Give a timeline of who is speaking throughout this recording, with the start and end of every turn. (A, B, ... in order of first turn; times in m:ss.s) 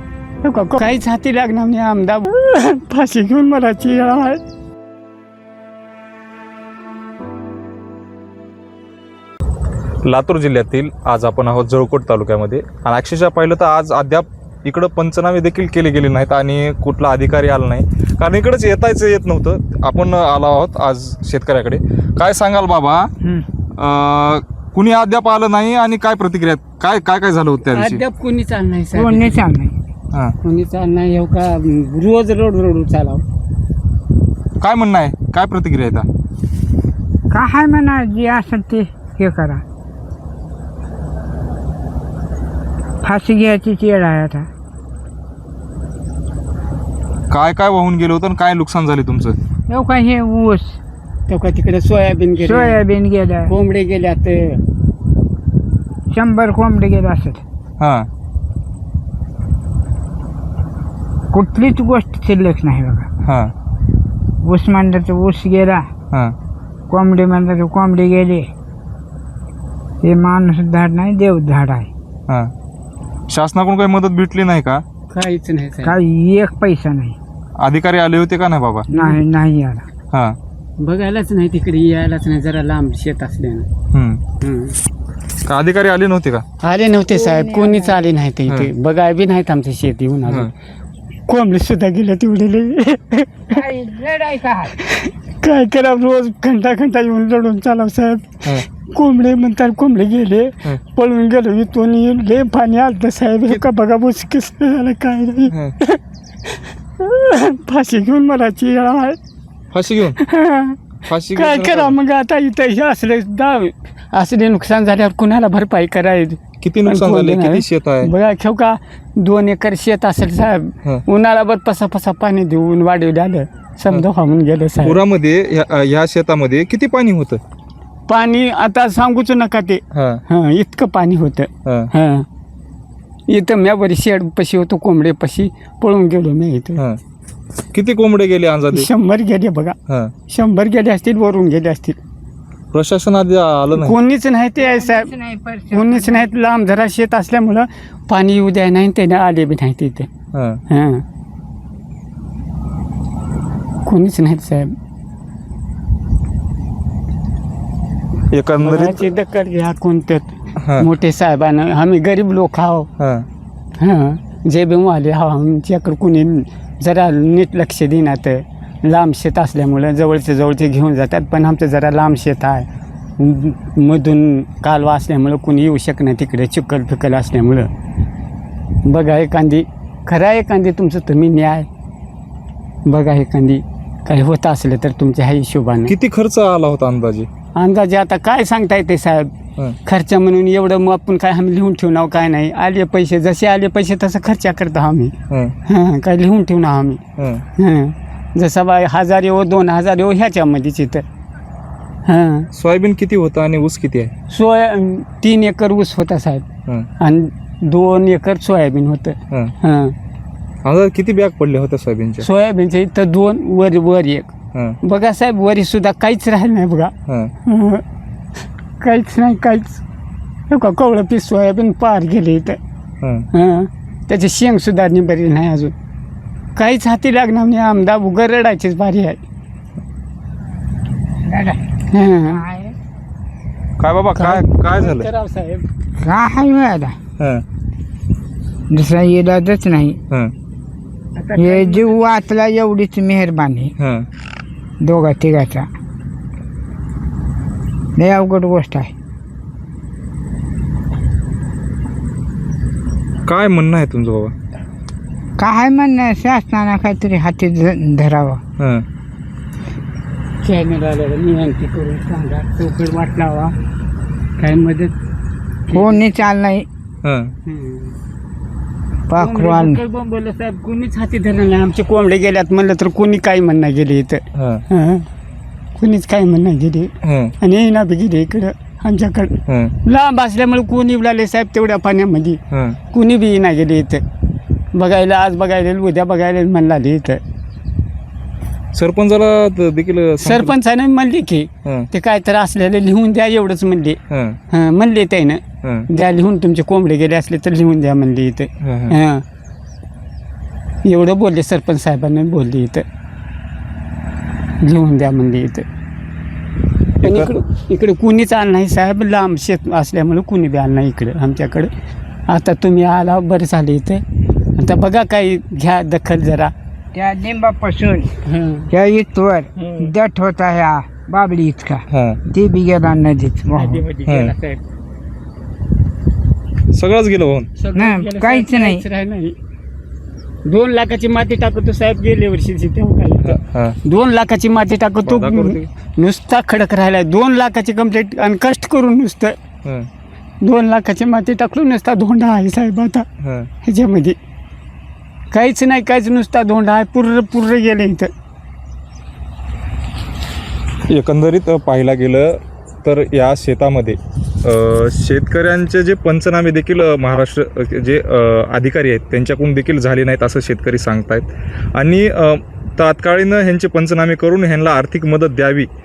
0:00.4-0:04.4 A
0:10.0-0:23.1 B
0:23.2-0:23.5 C
0:23.8-0:28.0 B
0:27.7-0:29.4 A
0:28.9-0:29.8 C
0:30.4-0:33.2 A
0:34.6-0:36.1 B
0:37.3-0:39.6 C
0:43.0-0:44.5 C
0:47.3-0:49.4 B
0:49.7-0:50.8 C
0:51.3-0:52.8 A
0:52.4-0:53.5 C
0:53.5-0:54.6 A
0:56.1-0:57.4 C
0:57.8-0:58.1 B
1:01.3-1:03.1 C
1:03.2-1:03.5 B
1:04.4-1:05.9 C
1:06.9-1:08.5 C
1:10.0-1:11.9 C
1:13.3-1:14.8 B
1:15.1-1:16.0 A
1:15.8-1:17.2 C
1:17.6-1:18.9 B
1:18.9-1:19.9 C
1:18.9-1:19.2 A
1:20.1-1:20.4 B
1:20.8-1:23.7 A
1:23.9-1:24.2 B
1:24.4-1:24.8 A
1:25.4-1:26.4 B
1:26.6-1:30.5 A
1:27.1-1:28.1 C
1:31.3-1:33.6 A
1:33.5-1:34.8 C
1:34.8-1:49.2 A
1:49.7-1:50.2 B
1:50.2-1:50.8 A
1:51.0-1:52.0 B
1:51.3-2:05.0 A
1:56.6-1:58.1 B
2:04.8-2:07.4 B
2:08.1-2:12.3 A
2:09.9-2:10.2 B
2:11.6-2:11.9 B
2:13.3-2:16.8 A
2:17.7-2:18.9 B
2:18.7-2:19.8 A
2:19.9-2:20.1 B
2:20.3-2:22.0 A
2:22.7-2:24.0 B
2:23.7-2:25.1 A
2:24.6-2:26.5 C
2:25.7-2:30.1 A
2:30.3-2:30.6 B
2:30.7-2:31.0 A
2:33.8-2:34.7 A
2:38.3-2:39.1 B
2:38.6-2:42.9 A
2:40.6-2:40.9 B
2:43.0-2:43.3 B
2:43.8-2:52.7 A
2:53.2-2:57.7 A
2:58.8-3:01.7 A
3:02.9-3:05.9 A
3:05.9-3:07.3 B
3:07.6-3:09.3 A
3:09.8-3:15.2 A
3:15.3-3:15.6 B
3:15.7-3:17.0 A
3:17.2-3:17.4 B
3:17.6-3:21.0 A
3:22.1-3:22.5 A
3:22.5-3:24.1 B
3:24.3-3:26.5 A
3:27.0-3:30.0 A
3:30.6-3:32.3 B
3:32.2-3:36.9 A
3:37.1-3:37.3 B
3:37.4-3:37.8 A
3:38.8-3:39.8 A
3:40.5-3:42.6 A
3:43.0-3:43.3 B
3:43.3-3:45.8 A
3:46.6-3:49.2 A
3:51.2-3:51.6 C
3:51.9-3:52.4 A
3:52.3-3:52.8 C
3:53.8-3:55.1 B
3:54.2-3:55.7 A
3:56.0-3:57.0 C
3:57.2-3:57.4 B
3:58.7-4:00.0 C
4:01.2-4:02.2 A
4:01.4-4:03.7 C
4:03.8-4:04.1 B
4:04.8-4:05.7 C
4:08.0-4:08.9 C
4:13.3-4:14.3 B
4:15.4-4:18.4 C
4:18.6-4:18.8 B
4:20.4-4:23.6 A
4:24.4-4:24.9 A
4:25.7-4:26.0 A
4:25.7-4:26.7 C
4:27.0-4:27.3 B
4:27.4-4:28.0 A
4:29.1-4:29.8 C
4:29.2-4:35.1 A
4:34.4-4:34.6 B
4:35.8-4:44.0 A
4:37.0-4:37.4 B
4:39.5-4:39.8 B
4:42.5-4:42.8 B
4:44.7-4:47.2 A
4:48.7-4:50.5 B
4:50.2-4:54.0 A
4:54.1-4:54.4 B
4:54.5-4:59.2 A
4:58.6-4:59.0 B
5:00.8-5:02.8 A
5:04.6-5:05.7 A
5:07.0-5:11.7 A
5:07.0-5:07.3 B
5:12.3-5:16.5 A
5:16.9-5:18.1 C
5:18.2-5:18.7 A
5:18.7-5:23.8 C
5:19.6-5:19.9 A
5:21.9-5:22.2 B
5:23.6-5:24.6 A
5:24.1-5:24.3 B
5:26.7-5:27.5 B
5:27.6-5:29.4 A
5:27.8-5:28.8 C
5:30.4-5:39.4 A
5:33.2-5:33.8 B
5:35.0-5:35.7 B
5:39.6-5:39.9 B
5:40.4-5:43.1 A
5:43.2-5:43.5 B
5:43.6-5:44.2 A
5:45.3-5:48.1 A
5:50.9-6:05.7 B